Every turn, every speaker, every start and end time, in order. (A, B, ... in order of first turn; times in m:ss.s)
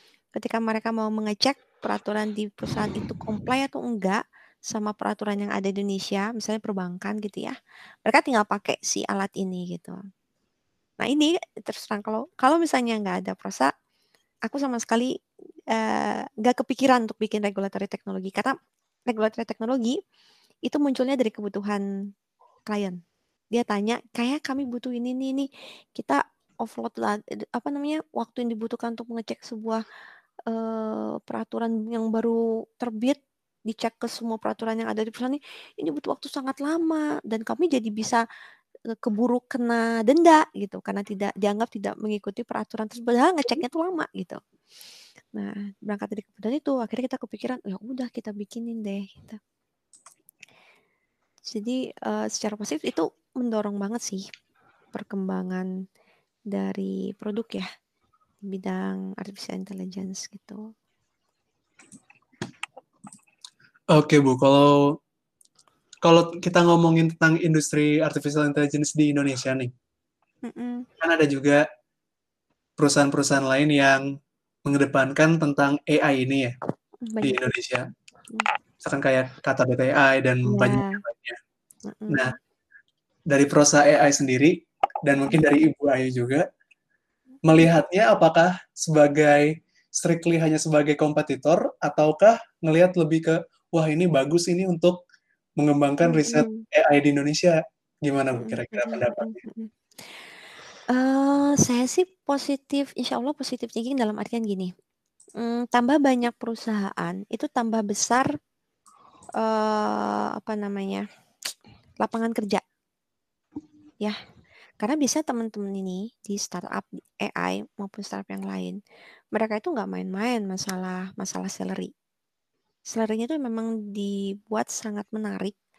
0:00.4-0:10.0 A
0:11.0-0:13.7 A
0:14.5-0:15.1 A
0:15.7-0:18.6 A
0:19.1-0:20.0 A
0:20.7-0:21.8 A
0:22.7-0:23.0 A
0:23.5-0:29.8 A
0:30.5-0:38.2 A
0:39.0-0:44.4 A
0:45.4-0:49.4 A
0:51.5-0:54.3 A
0:54.9-0:55.7 A
0:56.5-0:57.7 A
0:58.5-1:00.6 A
1:03.9-1:05.0 B
1:06.0-1:09.7 B
1:10.5-1:10.9 A
1:11.0-1:11.6 B
1:12.8-1:14.1 B
1:14.7-1:16.5 B
1:17.1-1:17.4 A
1:17.2-1:17.8 B
1:18.8-1:21.4 B
1:20.5-1:21.0 A
1:21.9-1:22.3 A
1:23.3-1:26.5 B
1:27.4-1:35.0 B
1:35.6-1:39.4 B
1:36.0-1:36.6 A
1:38.4-1:40.3 A
1:40.9-1:44.7 A
1:45.4-1:48.3 A
1:49.4-1:51.0 A
1:52.0-1:52.6 A
1:54.8-1:58.8 A
1:59.3-2:01.9 A
2:02.9-2:05.6 A